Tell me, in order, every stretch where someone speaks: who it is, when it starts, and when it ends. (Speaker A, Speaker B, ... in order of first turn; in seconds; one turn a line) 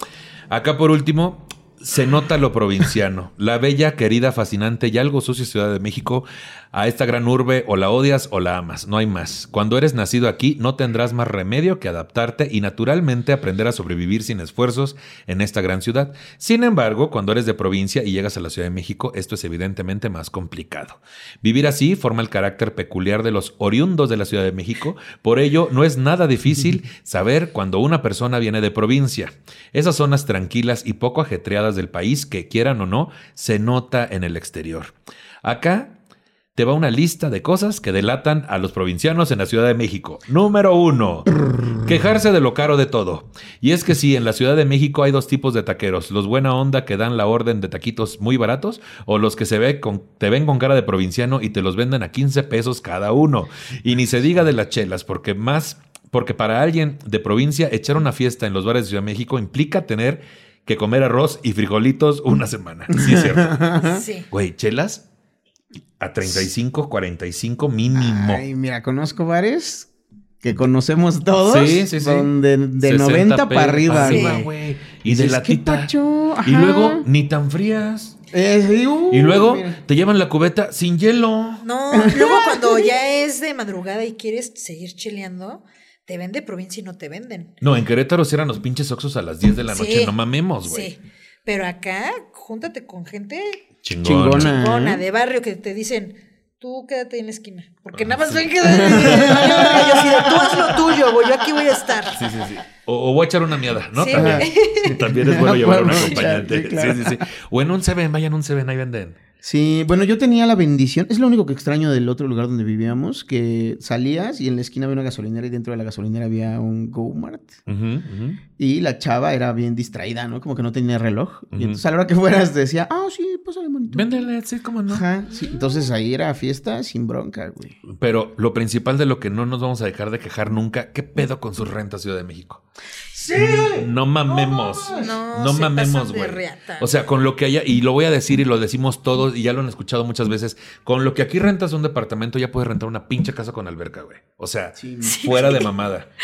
Speaker A: 0.5-35.9
Speaker A: 36.5-63.6
Speaker B: 62.9-64.0
Speaker C: 63.8-64.2
Speaker A: 64.3-65.0
Speaker A: 66.0-68.4
Speaker B: 67.9-74.5
Speaker A: 71.4-72.3
Speaker A: 72.8-75.9
Speaker C: 74.0-74.4
Speaker B: 75.0-77.0
Speaker A: 76.4-78.2
Speaker B: 78.3-79.8
Speaker A: 79.1-81.6
Speaker C: 81.6-87.5
Speaker B: 81.9-82.9
Speaker A: 87.6-90.9
Speaker C: 89.7-93.7
Speaker A: 93.8-94.5
Speaker B: 94.0-95.0
Speaker C: 94.4-102.2
Speaker A: 97.9-99.8
Speaker B: 98.6-102.1
Speaker A: 102.1-109.2
Speaker C: 104.0-105.0
Speaker B: 104.1-107.2
Speaker B: 109.4-117.5
Speaker A: 117.7-118.4
Speaker B: 118.6-124.3
Speaker A: 121.5-121.8
Speaker A: 123.9-125.0
Speaker B: 124.9-127.8
Speaker A: 127.8-132.6
Speaker B: 133.1-135.2
Speaker A: 133.3-146.1
Speaker C: 134.9-136.9
Speaker B: 144.8-145.7
Speaker C: 145.0-145.7